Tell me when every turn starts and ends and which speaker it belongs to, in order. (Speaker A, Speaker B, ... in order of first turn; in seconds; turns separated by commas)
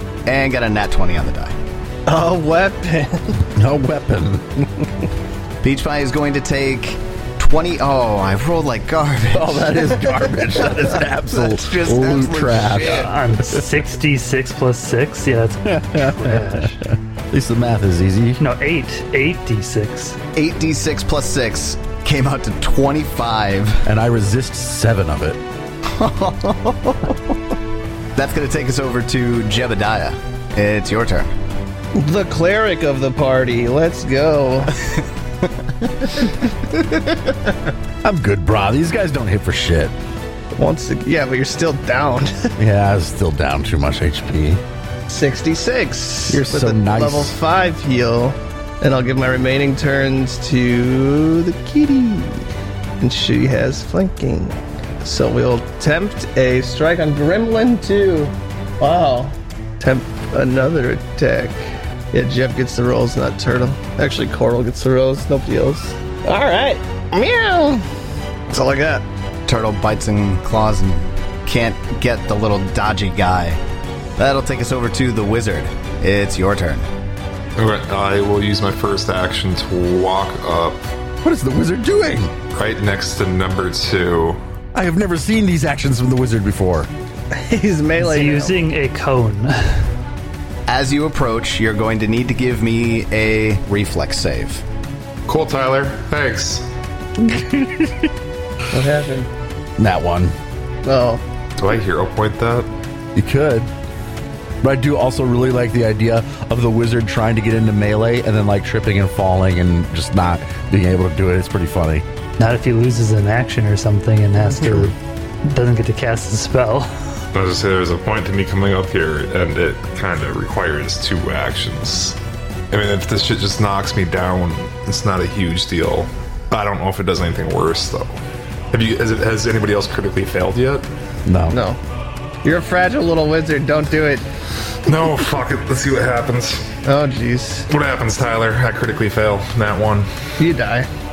Speaker A: 0.3-1.6, Speaker B: 2.1-3.5, Speaker C: 3.6-4.6, Speaker A: 5.6-10.0, Speaker C: 9.3-13.6, Speaker A: 11.2-13.1, Speaker D: 12.8-16.8, Speaker C: 15.6-18.4, Speaker D: 18.4-20.2, Speaker A: 20.4-23.8, Speaker C: 23.9-25.4, Speaker A: 25.9-27.2, Speaker A: 28.1-31.3, Speaker B: 31.9-34.8, Speaker C: 38.0-39.9, Speaker B: 40.5-42.5, Speaker C: 42.6-44.6, Speaker B: 45.1-52.5, Speaker C: 46.3-47.4, Speaker B: 53.0-61.6, Speaker B: 62.1-67.8, Speaker B: 68.5-69.0, Speaker A: 69.5-73.6, Speaker A: 74.2-76.9, Speaker E: 77.6-80.8, Speaker C: 81.2-82.3, Speaker E: 82.5-84.4, Speaker C: 84.7-86.9, Speaker B: 87.3-88.6, Speaker D: 88.0-89.8, Speaker A: 90.7-94.6, Speaker E: 95.3-96.7, Speaker C: 97.2-98.1, Speaker B: 98.7-99.3, Speaker C: 99.8-100.3, Speaker B: 100.8-101.2, Speaker E: 101.6-102.7, Speaker C: 103.1-103.7, Speaker C: 104.6-112.0, Speaker D: 112.4-117.1, Speaker C: 114.5-114.9, Speaker E: 117.3-122.2, Speaker E: 122.7-128.2, Speaker E: 128.7-130.9, Speaker C: 131.3-131.6, Speaker B: 131.5-131.8, Speaker B: 132.4-134.3, Speaker E: 134.8-136.7, Speaker B: 136.8-137.7, Speaker E: 137.7-140.1, Speaker B: 140.4-140.9